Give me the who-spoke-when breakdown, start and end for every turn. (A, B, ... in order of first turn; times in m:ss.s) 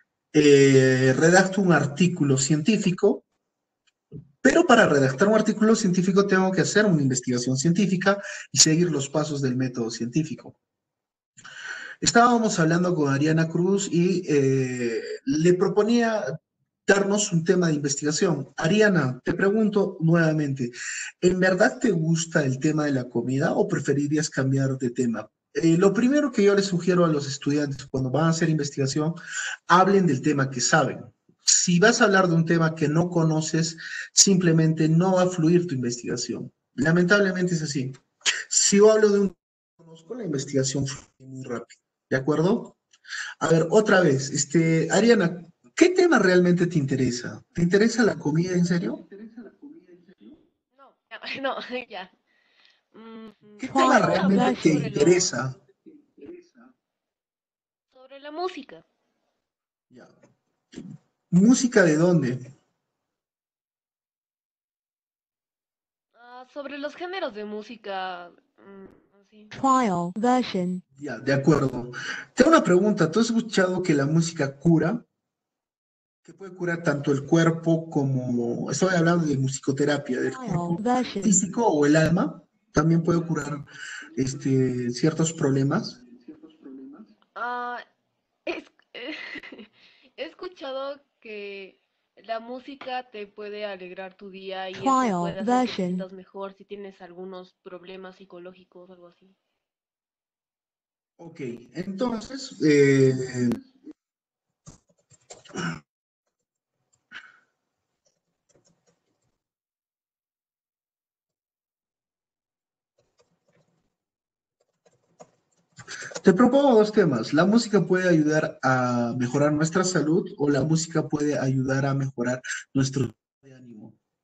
0:00.3-0:03.2 A
0:04.4-0:10.6 A
0:12.0-0:16.4 A
0:16.9-0:29.2 A
0:29.7-0:42.8 A
0:43.4-0:49.1 A
0:50.7-0:52.1 B
0:52.9-0:55.4 B
0:53.6-0:55.6 A
0:53.7-0:54.9 C
0:57.9-0:58.8 B
1:00.8-1:02.5 A
1:06.2-1:09.5 B
1:09.5-1:10.8 C
1:11.0-1:15.0 A
1:16.2-1:26.0 A
1:20.2-1:21.4 C
1:27.4-1:27.8 B
1:28.5-1:39.4 B
1:34.7-1:36.0 C
1:41.2-1:43.6 A
1:56.2-2:04.0 A